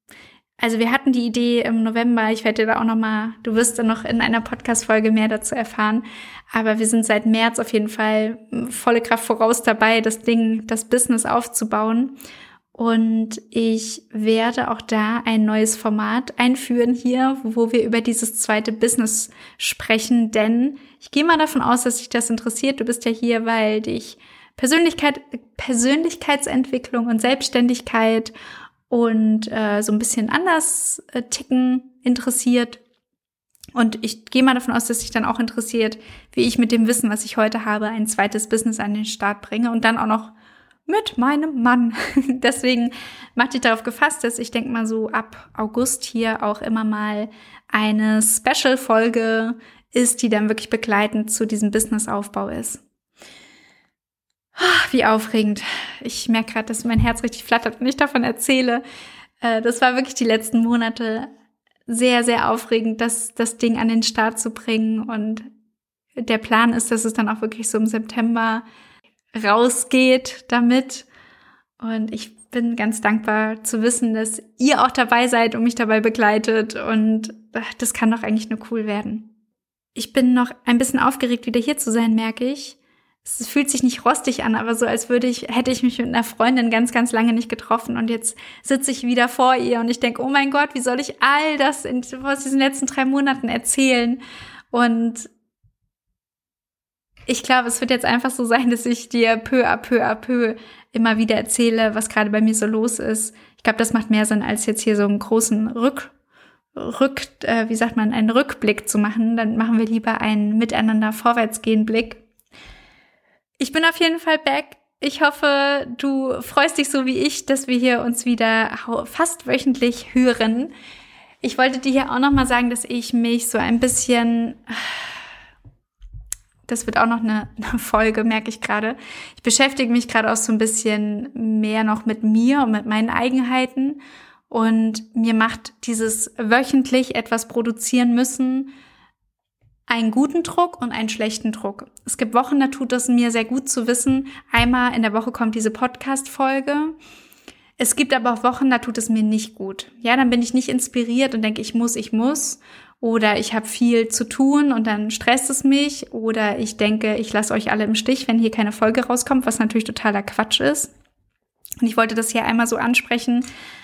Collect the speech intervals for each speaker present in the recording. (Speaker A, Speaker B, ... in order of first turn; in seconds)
Speaker A: 0.6-12.2, 12.7-28.3, 28.9-32.8, 33.7-40.3, 40.9-52.8, 54.5-58.8, 59.4-61.3, 61.9-65.4, 66.2-68.6, 69.3-71.1, 71.8-79.3, 79.9-94.2, 94.7-95.3, 97.3-106.1, 106.7-112.2, 113.6-120.7, 121.4-125.0, 126.7-138.7, 139.9-146.9, 147.8-160.9, 161.8-163.4